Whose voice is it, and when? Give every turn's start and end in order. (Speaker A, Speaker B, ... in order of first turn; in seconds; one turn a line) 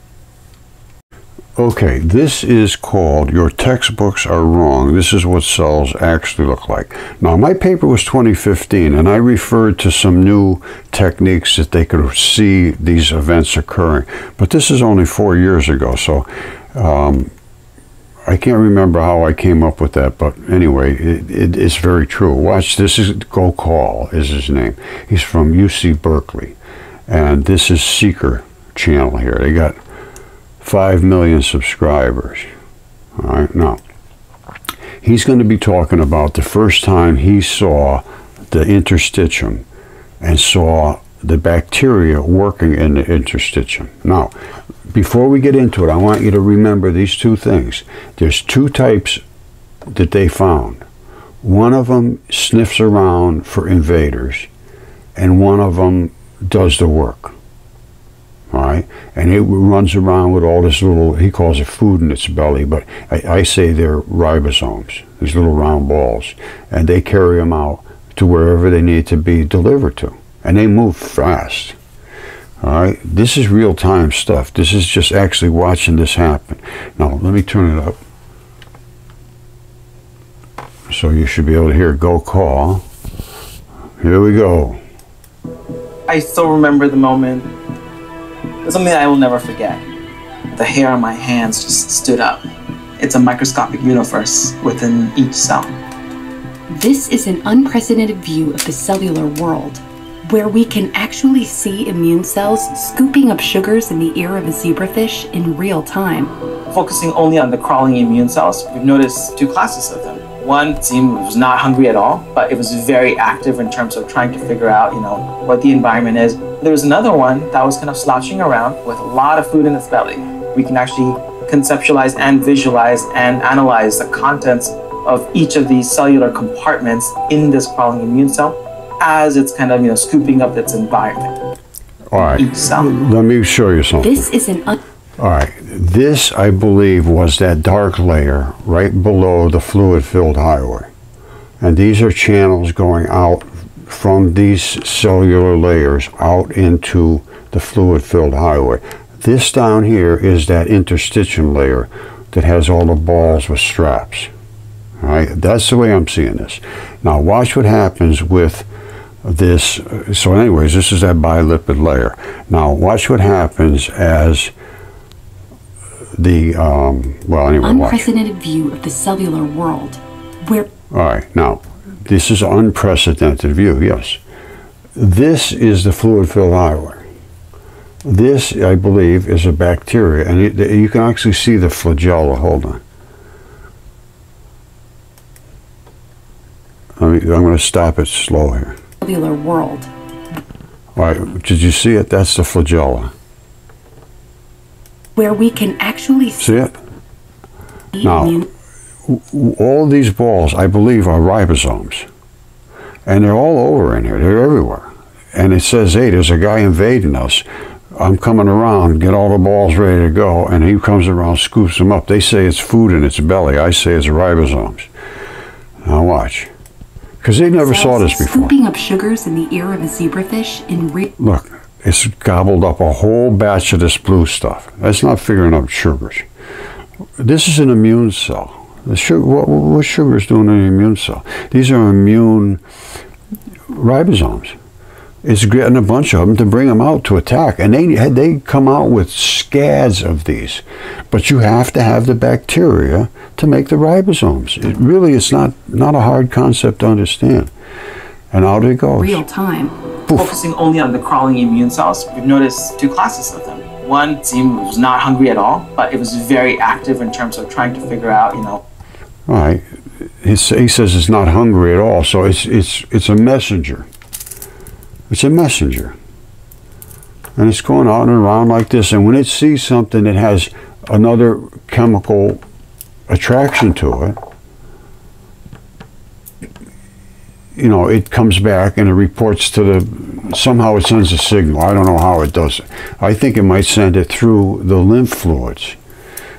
Speaker A: 1.6-17.3
Speaker A: 18.2-26.6
Speaker A: 27.1-29.8
Speaker A: 30.6-32.5
Speaker A: 33.2-33.8
Speaker A: 35.0-39.6
Speaker A: 40.2-44.3
Speaker A: 44.9-49.2
Speaker A: 49.9-50.8
Speaker A: 51.4-54.5
Speaker A: 55.1-57.3
Speaker A: 58.5-71.8
Speaker A: 72.6-78.0
Speaker A: 80.9-82.8
Speaker A: 84.0-84.8
Speaker B: 86.1-87.5
Speaker B: 88.6-89.8
Speaker B: 90.5-92.5
Speaker B: 93.0-95.8
Speaker C: 96.7-106.3
Speaker B: 106.7-131.3
Speaker A: 132.1-134.3
Speaker B: 132.2-132.9
Speaker C: 134.0-134.8
Speaker A: 135.2-140.9
Speaker A: 141.6-154.3
Speaker A: 155.0-158.7
Speaker A: 159.2-164.5
Speaker A: 166.2-168.1
Speaker C: 167.6-170.7
Speaker A: 170.9-174.2
Speaker A: 174.9-177.0
Speaker A: 178.0-182.8
Speaker A: 187.0-188.8
Speaker C: 189.0-189.9
Speaker A: 190.9-193.1
Speaker C: 195.2-196.5
Speaker A: 196.4-196.8
Speaker C: 197.9-198.4
Speaker A: 198.0-198.4
Speaker A: 199.1-202.1
Speaker A: 203.1-214.9
Speaker A: 215.8-216.5
Speaker A: 217.2-218.5
Speaker C: 217.6-221.1
Speaker A: 221.2-226.2
Speaker A: 227.2-232.6
Speaker A: 233.7-234.6
Speaker A: 235.2-247.5
Speaker A: 248.3-249.2
Speaker C: 249.0-249.8
Speaker B: 250.1-258.6
Speaker A: 259.3-259.6
Speaker A: 260.2-263.9
Speaker A: 265.1-265.9
Speaker A: 267.4-272.4
Speaker A: 273.1-274.2
Speaker A: 277.6-285.8